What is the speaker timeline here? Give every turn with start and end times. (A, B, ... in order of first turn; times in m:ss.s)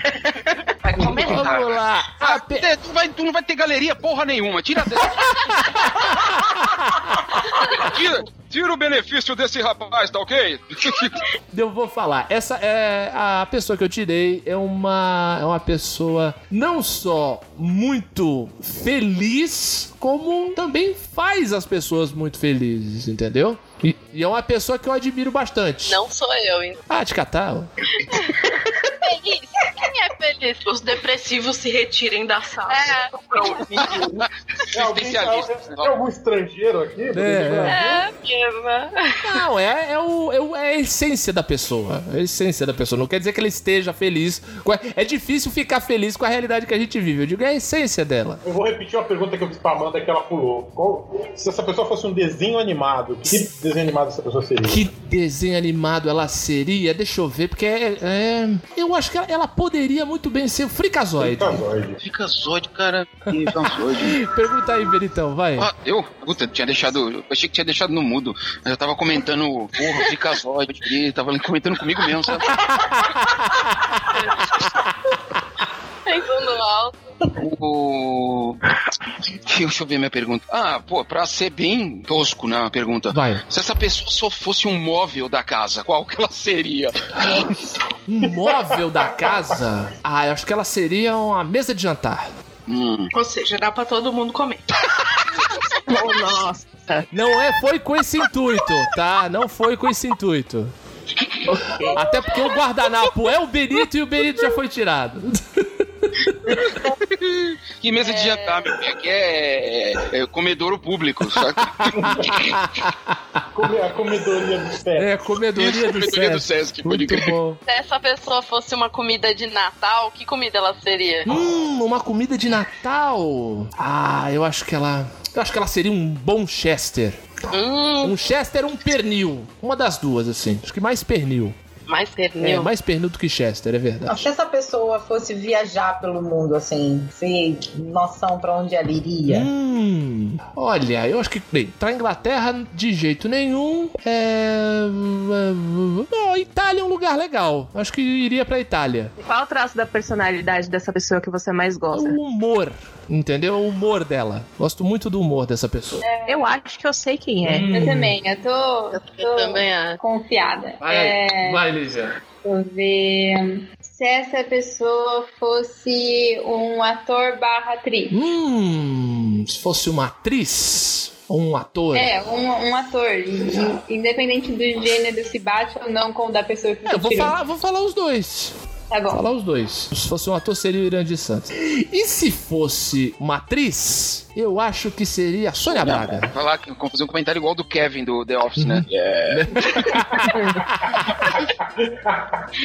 0:00.8-0:01.6 A
0:01.0-0:05.8 B
0:01.0-0:02.7 C
0:05.1-0:07.4 C
0:07.7-0:11.2 B
0:11.5-0:26.0 C
0:25.8-0:26.8 D
0:26.9-0:27.7 C
0:28.0-0:30.6 D
0:30.6-0:34.1 A
0:32.7-0:33.9 D
0:33.8-0:35.9 B
0:34.7-0:38.1 E
0:37.1-0:37.8 C
0:37.7-0:39.2 D
0:39.2-0:48.4 C
0:48.4-0:54.8 E
0:54.6-1:01.6 C
1:01.2-1:02.0 E
1:02.0-1:04.2 B
1:04.0-1:05.7 C
1:05.6-1:12.7 B
1:12.7-1:14.1 C
1:16.0-1:16.9 D
1:17.3-1:18.6 B
1:19.4-1:27.4 B
1:23.1-1:23.4 C
1:28.1-1:32.3 C
1:28.4-1:29.5 E
1:32.7-1:33.1 B
1:33.1-1:34.6 A
1:35.9-1:37.0 F
1:37.1-1:40.7 C
1:41.5-1:42.0 F
1:41.9-1:46.6 C
1:46.7-1:52.0 B
1:48.0-1:48.6 D
1:51.6-1:53.4 C
1:52.0-1:52.4 E
1:53.5-1:55.1 E
1:55.0-1:57.6 C
1:55.5-1:57.3 B
1:57.6-2:01.3 D
2:01.2-2:07.2 C
2:07.5-2:08.2 D
2:08.0-2:11.6 C
2:11.9-2:12.7 D
2:12.4-2:14.3 C
2:14.1-2:19.5 G
2:19.3-2:29.1 C
2:29.2-2:32.2 F
2:31.9-2:36.0 C
2:36.0-2:36.5 H
2:36.3-2:37.7 F
2:37.4-2:38.1 C
2:37.7-2:41.6 H
2:38.9-2:40.0 D
2:40.8-2:42.2 C
2:42.4-2:48.2 H
2:48.1-2:52.1 C
2:51.9-2:57.3 H
2:56.9-2:58.5 C
2:58.9-2:59.2 H
2:59.1-3:06.3 C
3:05.6-3:10.0 B
3:08.6-3:11.2 C
3:11.6-3:12.4 E